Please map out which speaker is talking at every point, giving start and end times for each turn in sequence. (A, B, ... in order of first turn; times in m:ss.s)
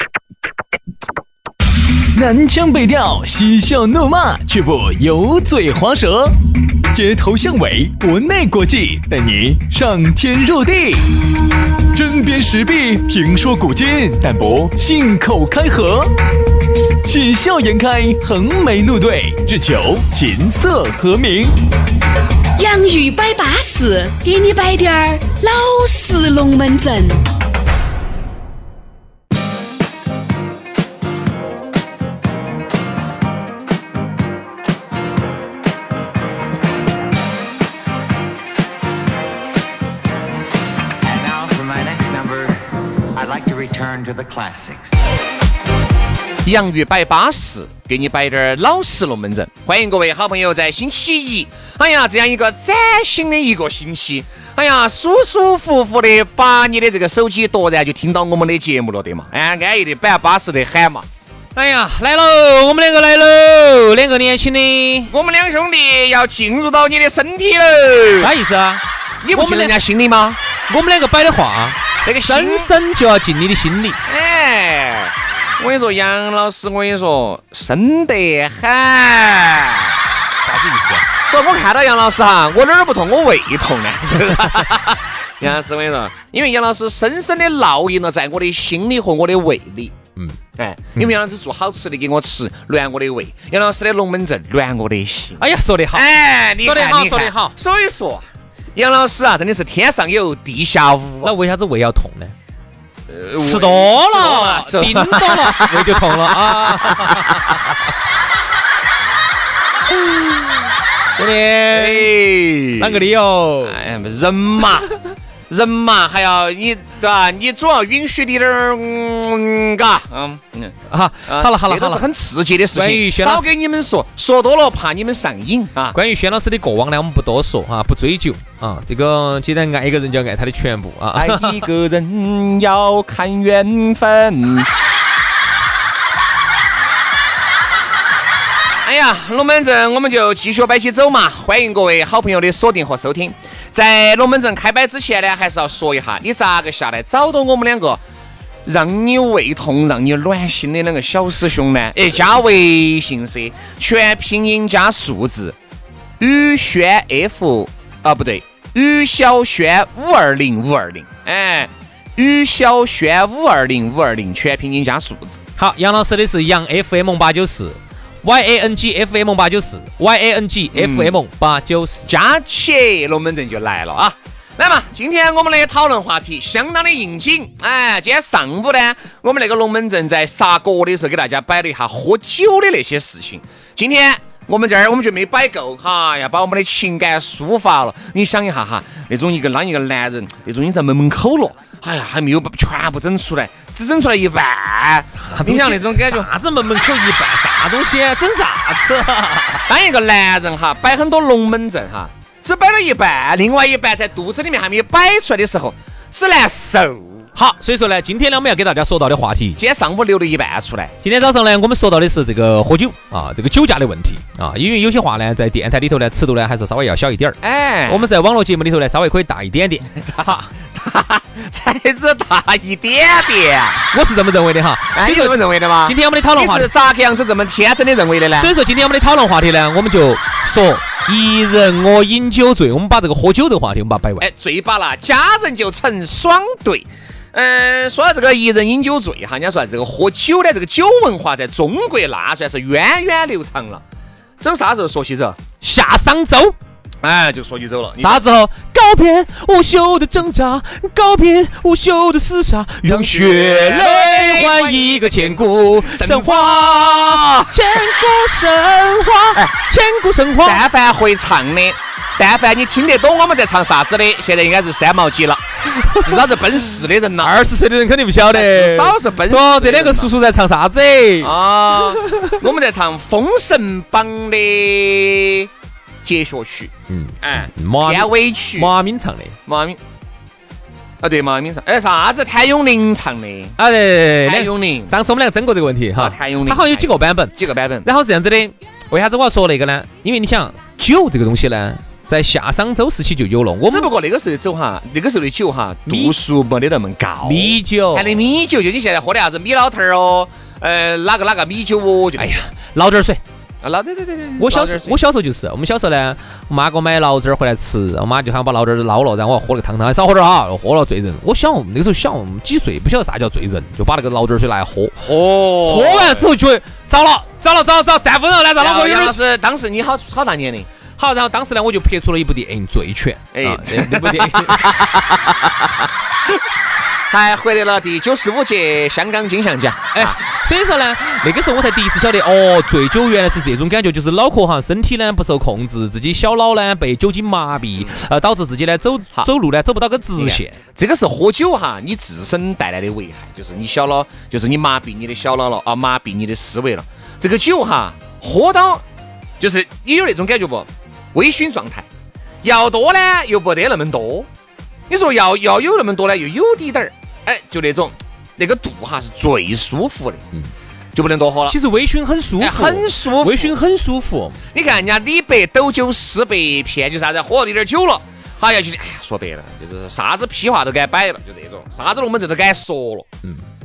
0:02.1-0:06.4 A
0:06.9-0:11.0 A
0:11.9-0:16.1 A
0:17.0-0:21.5 A
0:22.6-0:27.2 B
0:41.0-0:45.0 C
0:46.4-1:01.0 D
1:01.6-1:05.1 E
1:05.1-1:08.3 D
1:08.2-1:09.8 E
1:09.2-1:10.4 D
1:10.7-1:14.0 E
1:12.0-1:12.7 D
1:14.0-1:20.0 D
1:20.4-1:21.1 E
1:21.3-1:29.9 D
1:30.6-1:41.3 D
1:35.4-1:36.1 E
1:36.6-1:37.5 E
1:41.2-1:42.3 E
1:43.1-1:47.6 D
1:43.4-1:47.7 E
1:51.2-1:52.1 E
1:51.7-1:53.1 D
1:52.8-1:53.8 E
1:53.6-1:54.9 D
1:55.5-2:06.0 D
2:00.9-2:02.0 E
2:02.7-2:03.4 E
2:05.9-2:11.6 E
2:11.1-2:14.7 D
2:18.8-2:28.0 D
2:28.6-2:35.6 D
2:36.2-2:45.4 D
2:45.6-2:52.1 E
2:50.7-2:51.2 D
2:52.1-3:16.3 D
3:15.2-3:19.6 E
3:19.7-3:27.3 D
3:27.4-3:29.6 E
3:29.6-3:31.0 D
3:31.0-3:40.5 E
3:37.4-3:38.1 D
3:40.0-3:43.8 D
3:43.9-3:46.7 E
3:44.9-3:48.5 D
3:48.4-3:54.3 E
3:54.2-4:03.8 D
4:04.4-4:05.4 D
4:05.6-4:06.5 E
4:07.0-4:08.2 D
4:08.0-4:20.6 E
4:12.8-4:17.6 D
4:20.4-4:25.4 D
4:25.8-4:26.2 E
4:25.9-4:27.4 D
4:27.2-4:32.4 E
4:28.3-4:30.1 D
4:31.2-4:35.5 D
4:36.0-4:38.7 D
4:36.9-4:39.4 E
4:39.5-4:39.8 D
4:41.0-4:43.6 D
4:43.6-4:53.9 E
4:44.2-4:44.9 D
4:46.0-4:47.9 D
4:53.6-5:02.4 D
4:55.9-4:56.1 E
4:57.2-4:58.2 E
5:02.2-5:03.2 E
5:03.6-5:05.0 D
5:04.4-5:15.1 E
5:15.0-5:16.3 D
5:15.6-5:19.2 E
5:18.6-5:20.7 D
5:21.0-5:24.8 E
5:23.3-5:25.7 D
5:27.1-5:30.2 D
5:29.9-5:40.6 E
5:40.2-5:48.8 D
5:49.4-5:51.9 D
5:52.4-5:54.3 D
5:54.9-6:00.2 D
6:00.9-6:01.6 D
6:01.5-6:04.4 E
6:02.4-6:03.6 D
6:04.5-6:13.1 D